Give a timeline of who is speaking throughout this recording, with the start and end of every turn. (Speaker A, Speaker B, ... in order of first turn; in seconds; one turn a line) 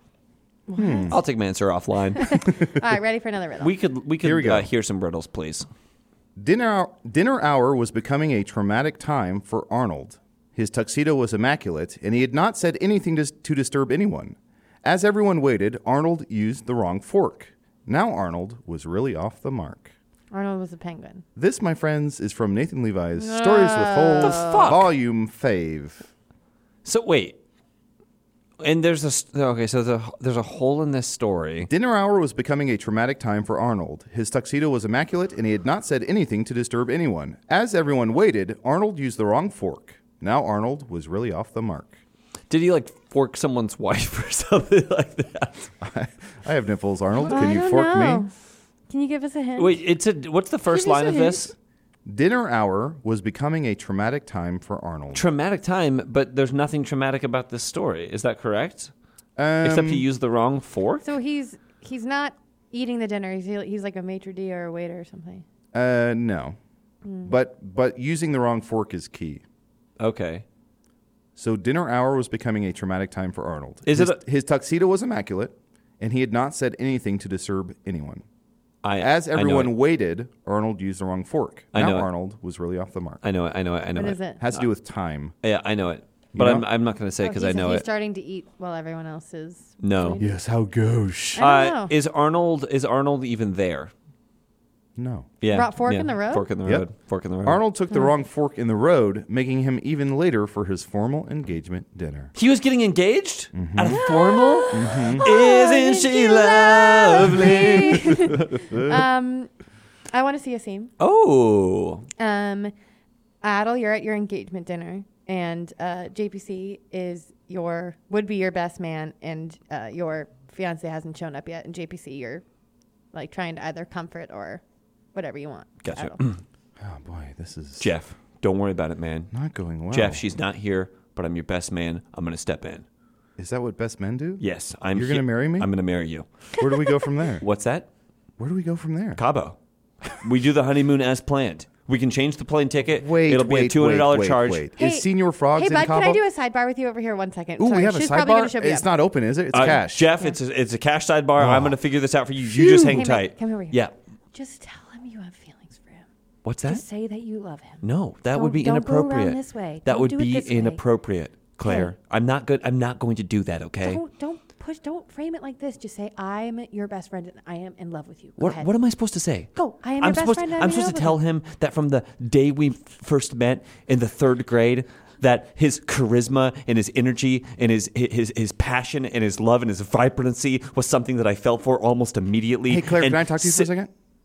Speaker A: 0.7-1.2
Speaker B: 0.8-1.2
Speaker C: 1.1-2.4
Speaker A: 2.2-3.7
Speaker C: 3.6-5.7
Speaker B: 4.2-4.7
Speaker B: 6.4-19.9
Speaker A: 20.3-21.2
Speaker B: 21.4-26.1
Speaker A: 23.2-24.7
Speaker C: 24.2-24.9
Speaker C: 26.8-27.4
Speaker C: 28.6-31.7
Speaker B: 31.6-41.9
Speaker C: 42.5-45.7
Speaker B: 45.8-48.2
Speaker A: 47.2-48.3
Speaker A: 48.9-49.8
Speaker C: 49.6-51.5
Speaker A: 50.7-51.5
Speaker B: 52.1-55.2
Speaker C: 55.1-58.9
Speaker B: 59.4-60.1
Speaker C: 59.6-61.0
Speaker A: 61.0-65.4
Speaker B: 65.7-66.5
Speaker A: 67.0-67.3
Speaker B: 67.2-69.4
Speaker C: 70.0-70.4
Speaker B: 71.3-78.2
Speaker C: 73.8-74.2
Speaker C: 78.8-79.7
Speaker B: 79.0-83.2
Speaker C: 81.7-82.1
Speaker C: 83.2-84.7
Speaker A: 83.9-84.4
Speaker B: 84.4-85.3
Speaker C: 85.4-87.8
Speaker B: 86.3-86.7
Speaker A: 87.2-90.3
Speaker C: 89.8-90.2
Speaker B: 90.2-91.4
Speaker A: 91.3-91.9
Speaker C: 91.4-93.9
Speaker B: 95.0-95.3
Speaker C: 95.4-97.6
Speaker A: 95.5-96.5
Speaker B: 97.4-102.3
Speaker C: 102.3-108.6
Speaker B: 103.5-104.0
Speaker A: 103.8-109.5
Speaker B: 104.7-105.2
Speaker B: 108.7-109.0
Speaker A: 110.1-110.9
Speaker C: 111.0-112.0
Speaker A: 112.2-112.7
Speaker A: 113.4-122.4
Speaker A: 123.1-124.6
Speaker A: 125.1-126.2
Speaker C: 125.8-126.4
Speaker B: 126.8-127.9
Speaker C: 127.8-129.3
Speaker B: 129.3-130.2
Speaker C: 129.9-132.8
Speaker B: 133.4-134.4
Speaker C: 134.4-136.3
Speaker B: 134.9-135.7
Speaker B: 136.6-137.4
Speaker C: 137.4-137.9
Speaker B: 138.4-139.2
Speaker C: 139.2-144.7
Speaker B: 143.0-146.2
Speaker A: 144.8-148.8
Speaker B: 147.6-150.1
Speaker C: 149.5-153.9
Speaker B: 151.4-151.8
Speaker A: 152.4-156.0
Speaker C: 156.4-156.8
Speaker A: 156.7-160.8
Speaker C: 157.8-164.0
Speaker A: 161.6-161.9
Speaker A: 163.8-168.7
Speaker C: 168.4-183.7
Speaker A: 169.5-171.2
Speaker B: 182.7-183.9